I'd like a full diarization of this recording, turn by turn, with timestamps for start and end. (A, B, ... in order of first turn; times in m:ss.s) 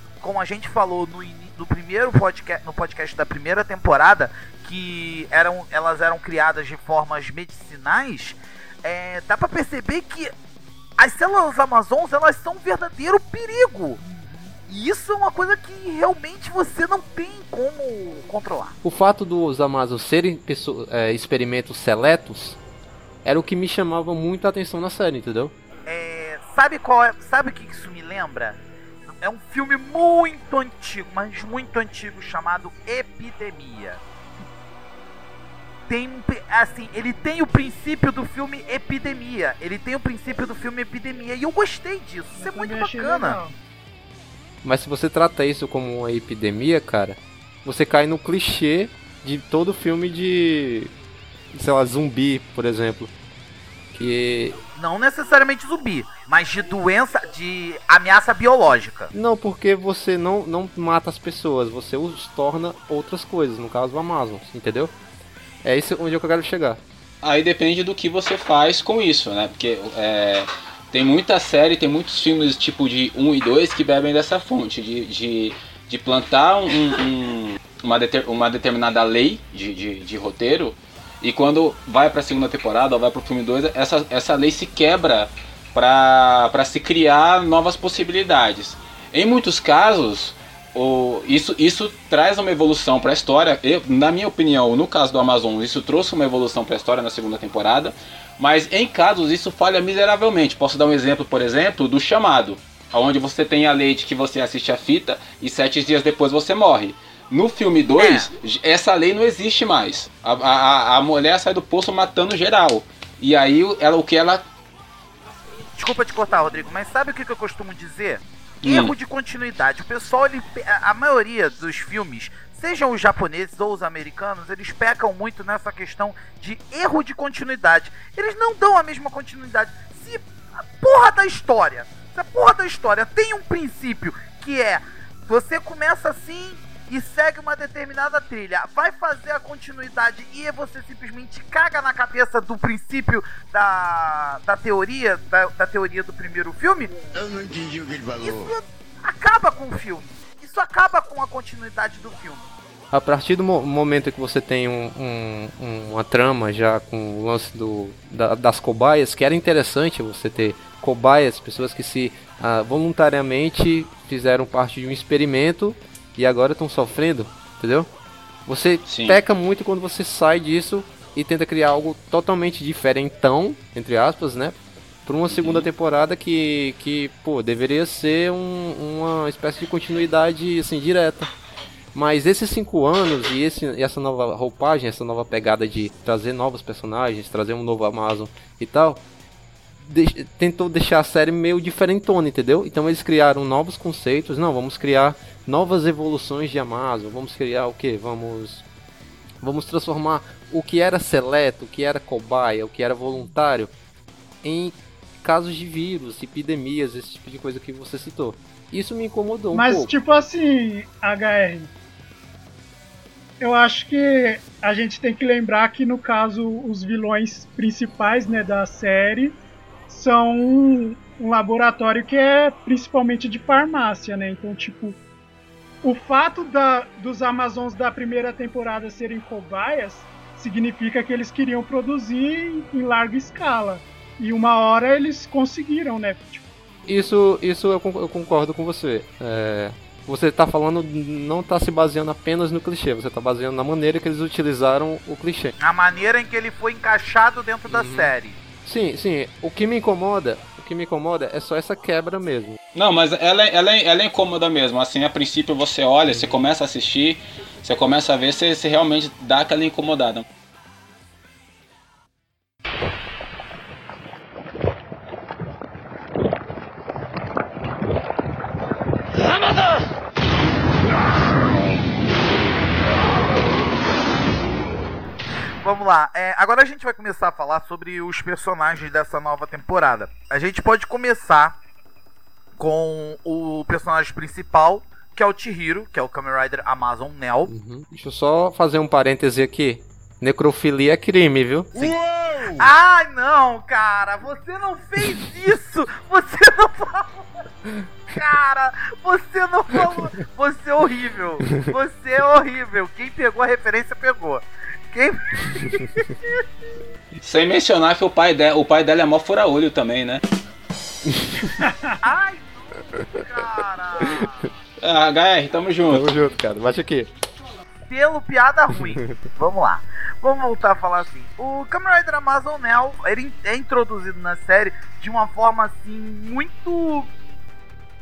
0:00.2-0:10.3 A
0:11.0-0:18.8 A
0:18.8-0:22.6 B
0:23.2-0:25.5 B
0:25.8-0:28.6 A
0:29.2-0:34.0 A
0:35.9-0:43.4 A
0:42.4-0:43.5 C
0:44.6-0:50.9 B
0:51.5-0:53.1 B
0:53.9-0:54.6 B
0:54.8-0:59.1 A
0:59.1-1:04.9 B
1:05.6-1:06.8 B
1:07.2-1:54.4 D
1:48.0-1:48.3 A
1:55.8-2:26.9 A
1:58.6-1:58.9 D
2:27.1-2:28.6 E
2:28.2-2:32.4 A
2:32.9-2:47.9 B
2:48.5-3:01.3 B
2:48.8-2:49.2 D
2:55.3-2:55.7 D
3:01.9-3:09.0 B
3:09.8-3:18.6 B
3:19.4-3:23.7 B
3:24.4-3:29.9 B
3:29.5-3:31.7 C
3:33.4-3:39.4 C
3:39.9-3:45.0 C
3:45.8-3:56.4 C
3:56.9-4:05.5 B
4:05.6-4:08.4 A
4:07.7-4:08.1 B
4:08.6-4:12.6 B
4:12.7-4:20.2 D
4:35.6-4:41.5 A
4:42.6-4:47.5 A
4:47.5-4:51.7 B
4:51.8-4:52.6 E
4:52.5-4:57.3 A
4:58.1-5:06.4 A
5:07.2-5:10.2 D
5:12.0-5:14.5 A
5:14.8-5:16.1 D
5:15.9-5:17.1 B
5:17.9-5:27.1 A